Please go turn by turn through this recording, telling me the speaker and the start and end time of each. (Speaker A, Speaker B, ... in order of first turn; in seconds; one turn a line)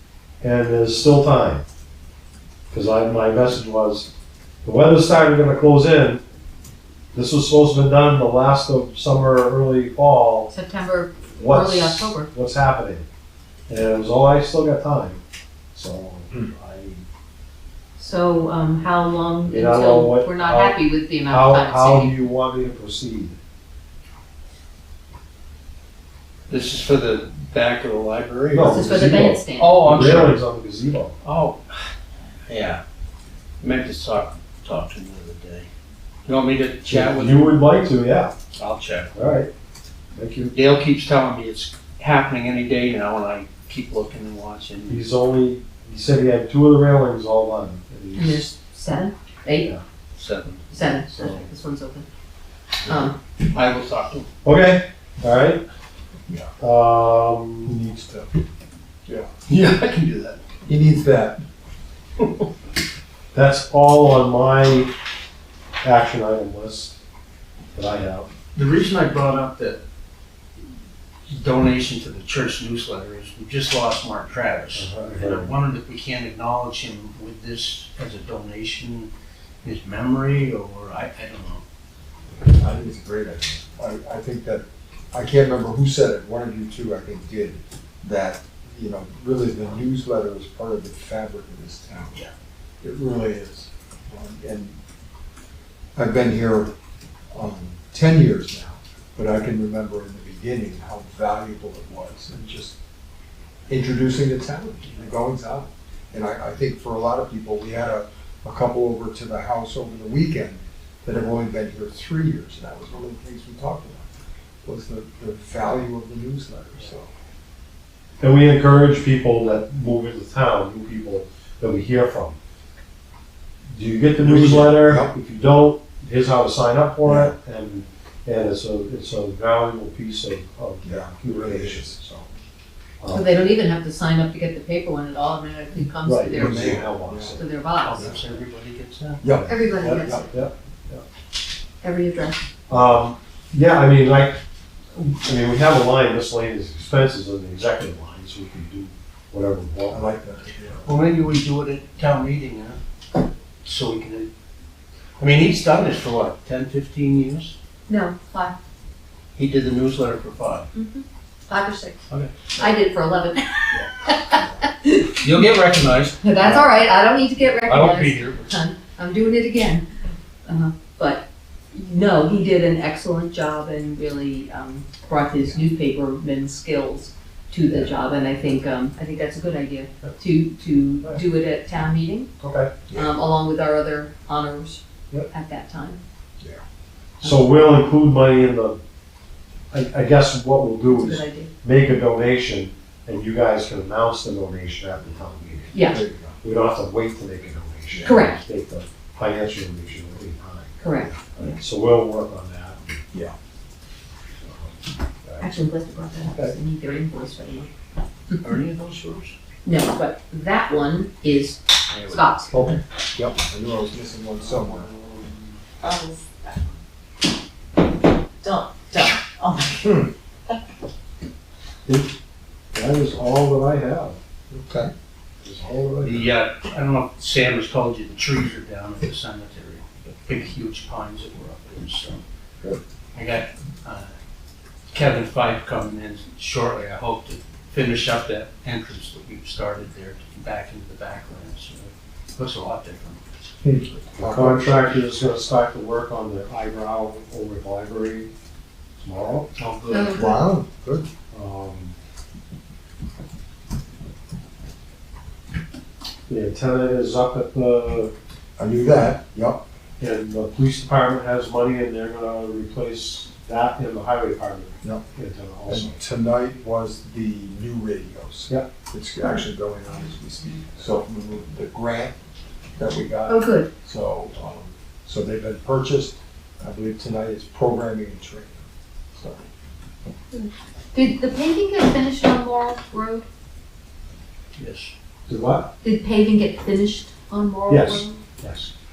Speaker A: 0.4-1.6
Speaker A: 2.7-4.1
Speaker A: 4.6-6.2
Speaker A: 7.1-10.5
Speaker B: 10.5-12.3
Speaker A: 11.4-13.1
Speaker A: 13.7-15.2
Speaker A: 15.7-17.1
Speaker B: 18.0-22.2
Speaker A: 19.5-23.4
Speaker C: 26.5-29.0
Speaker A: 28.5-31.1
Speaker B: 28.6-29.9
Speaker C: 29.6-30.4
Speaker C: 31.2-31.9
Speaker C: 32.5-32.8
Speaker C: 33.6-35.7
Speaker C: 36.3-37.5
Speaker A: 36.9-38.3
Speaker C: 38.6-39.3
Speaker A: 39.1-39.5
Speaker A: 40.1-40.5
Speaker C: 40.5-45.0
Speaker A: 44.9-48.5
Speaker B: 48.1-49.7
Speaker C: 50.1-50.6
Speaker B: 50.7-52.1
Speaker A: 51.1-51.5
Speaker B: 52.9-53.2
Speaker C: 53.4-54.3
Speaker A: 54.4-55.6
Speaker A: 56.6-58.0
Speaker D: 57.7-58.3
Speaker C: 59.5-60.4
Speaker D: 60.6-61.4
Speaker A: 63.3-64.9
Speaker A: 65.8-67.0
Speaker A: 67.8-68.3
Speaker C: 68.5-69.8
Speaker C: 71.3-79.1
Speaker A: 74.8-75.6
Speaker C: 79.6-81.6
Speaker D: 82.5-92.3
Speaker D: 92.8-94.8
Speaker D: 96.0-96.7
Speaker D: 97.3-102.8
Speaker D: 103.7-114.1
Speaker D: 114.6-117.1
Speaker A: 118.2-122.4
Speaker A: 123.7-131.9
Speaker D: 124.2-125.2
Speaker D: 127.0-127.3
Speaker D: 130.8-132.3
Speaker A: 133.0-133.3
Speaker B: 133.1-138.0
Speaker A: 136.0-137.4
Speaker D: 136.3-137.4
Speaker C: 137.8-139.2
Speaker D: 139.2-140.3
Speaker A: 139.2-141.0
Speaker B: 139.5-140.3
Speaker B: 141.8-142.4
Speaker A: 142.7-144.4
Speaker A: 144.9-150.1
Speaker D: 149.9-150.9
Speaker C: 150.8-152.8
Speaker C: 153.6-154.3
Speaker C: 155.2-157.6
Speaker B: 157.9-158.6
Speaker C: 159.3-160.7
Speaker B: 160.7-162.0
Speaker C: 162.1-162.6
Speaker B: 162.6-165.2
Speaker D: 164.3-164.6
Speaker C: 165.2-166.6
Speaker B: 166.2-169.9
Speaker C: 167.7-168.5
Speaker B: 170.5-182.3
Speaker A: 182.4-182.7
Speaker D: 182.9-183.1
Speaker B: 182.9-186.0
Speaker B: 187.2-187.5
Speaker A: 187.2-188.8
Speaker A: 189.7-195.8
Speaker B: 190.9-191.5
Speaker B: 195.7-196.0
Speaker D: 195.9-196.4
Speaker A: 196.4-200.7
Speaker D: 197.9-198.2
Speaker B: 198.0-198.4
Speaker B: 200.8-201.6
Speaker A: 201.4-202.8
Speaker A: 204.4-204.7
Speaker A: 205.2-205.6
Speaker B: 205.4-207.7
Speaker A: 206.3-206.5
Speaker C: 208.4-209.3
Speaker B: 209.7-212.5
Speaker C: 211.9-212.3
Speaker D: 212.5-214.9
Speaker A: 214.4-215.6
Speaker B: 215.8-216.6
Speaker B: 218.4-219.8
Speaker D: 219.8-220.1
Speaker A: 221.9-222.1
Speaker A: 222.7-224.2
Speaker D: 224.5-224.9
Speaker A: 225.4-226.3
Speaker C: 226.0-232.2
Speaker C: 233.2-234.1
Speaker C: 234.9-243.2
Speaker D: 243.6-244.8
Speaker A: 244.2-248.3
Speaker A: 249.0-249.5
Speaker C: 249.6-250.3
Speaker B: 249.9-250.4
Speaker D: 250.1-251.1
Speaker A: 251.3-251.9
Speaker A: 256.3-258.1
Speaker D: 258.6-259.6
Speaker A: 260.0-266.0
Speaker D: 265.7-272.2
Speaker D: 272.8-279.4
Speaker B: 273.3-273.7
Speaker B: 280.3-283.3
Speaker C: 284.6-284.9
Speaker A: 285.3-285.7
Speaker B: 285.8-288.2
Speaker A: 287.7-288.7